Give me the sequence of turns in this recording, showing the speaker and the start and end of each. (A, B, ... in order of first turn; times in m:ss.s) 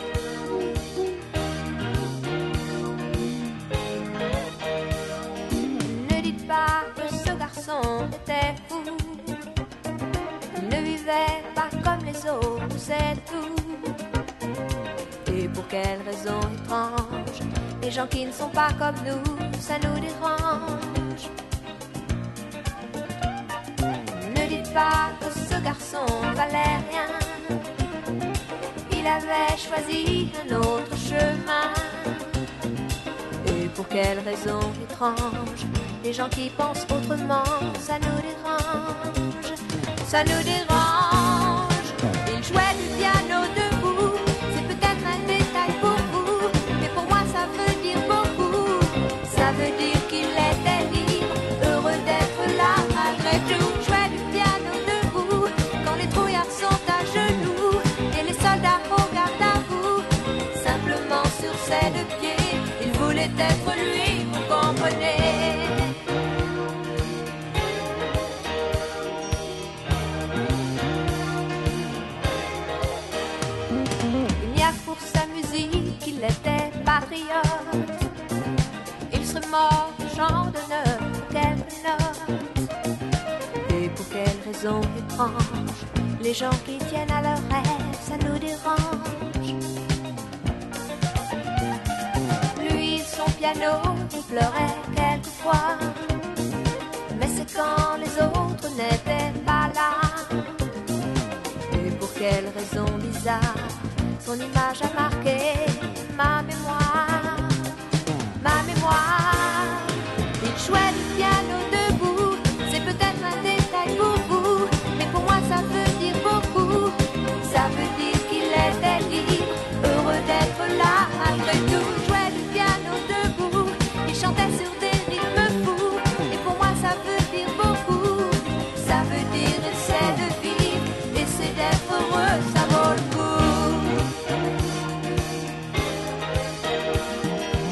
0:05.7-0:09.4 A
0:10.6-0:14.0 A
0:15.3-0:21.3 A
0:24.1-0:27.6 A
0:28.9-0:32.2 A
0:33.4-1:05.9 A
1:14.4-1:17.9 A
1:19.1-1:22.5 A
1:23.7-1:29.6 A
1:32.5-1:36.1 A
1:37.1-1:40.5 A
1:41.7-1:47.7 A
1:48.4-2:14.1 A